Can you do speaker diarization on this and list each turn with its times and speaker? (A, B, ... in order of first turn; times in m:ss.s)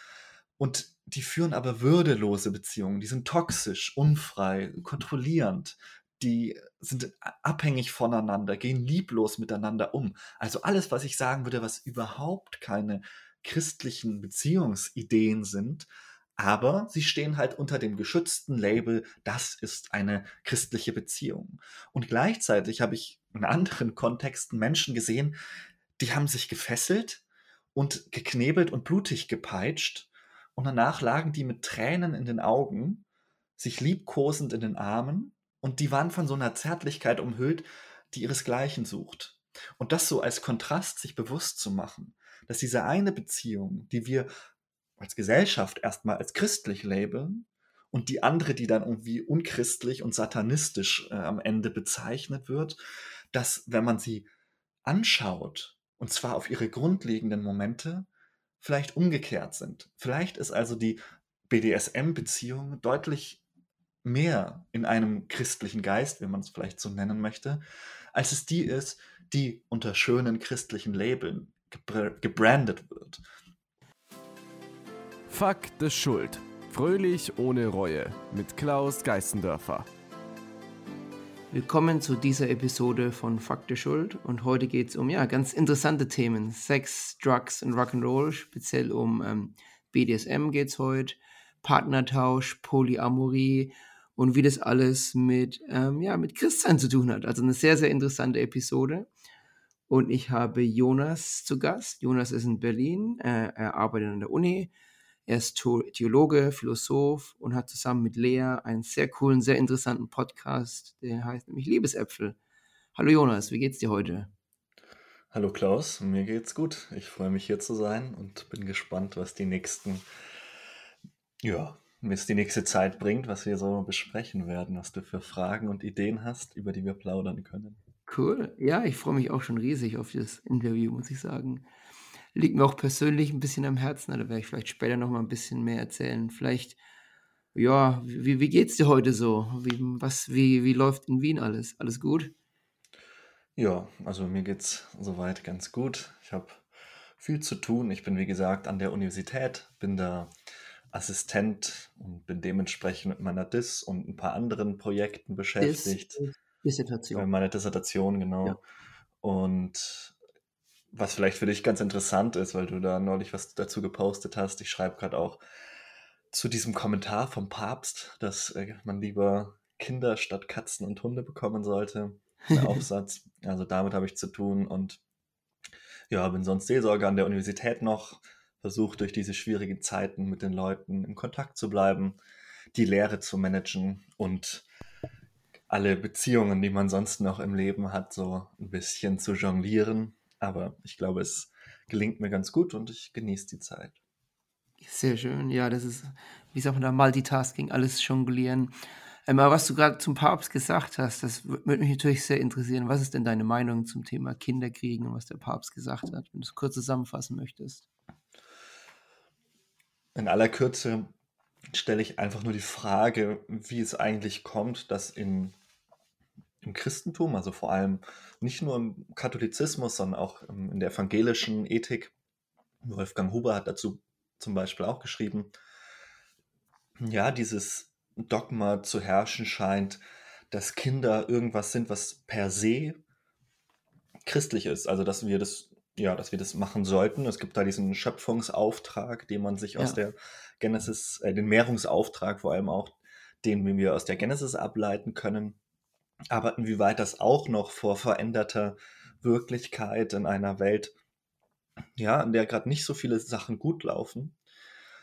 0:00.6-0:25.4 A
0:26.0-0:27.2 A
0:27.7-0:33.0 A
0:33.6-0:44.3 A
0:45.0-0:52.8 A
0:53.3-0:54.3 A
0:54.8-0:58.1 A
0:58.6-1:03.4 A
1:04.0-1:07.6 A
1:08.1-1:13.2 A
1:15.3-1:19.8 B
1:21.5-1:39.1 C
1:39.9-1:44.7 C
1:45.3-1:52.4 C
1:52.9-1:54.3 C
1:55.3-2:00.0 A
2:01.4-2:07.8 A
2:08.1-2:11.6 C
2:12.3-2:16.8 C
2:17.5-2:22.3 C
2:23.6-2:26.6 A
2:27.2-2:30.3 A
2:30.9-2:36.2 A
2:35.6-2:37.2 C
2:37.1-2:38.6 A
2:39.2-2:40.1 A
2:40.9-2:45.4 A
2:46.3-2:55.0 A
2:52.5-2:52.8 C
2:56.1-3:02.2 A
3:02.7-3:04.6 A
3:05.7-3:14.0 A
3:14.8-3:18.7 C
3:19.2-3:27.8 C
3:30.1-3:31.1 A
3:31.7-3:35.5 A
3:36.6-3:42.1 A
3:42.8-3:45.5 A
3:47.0-3:53.0 A
3:54.2-4:05.6 A
4:06.3-4:10.9 A
4:12.0-4:14.4 A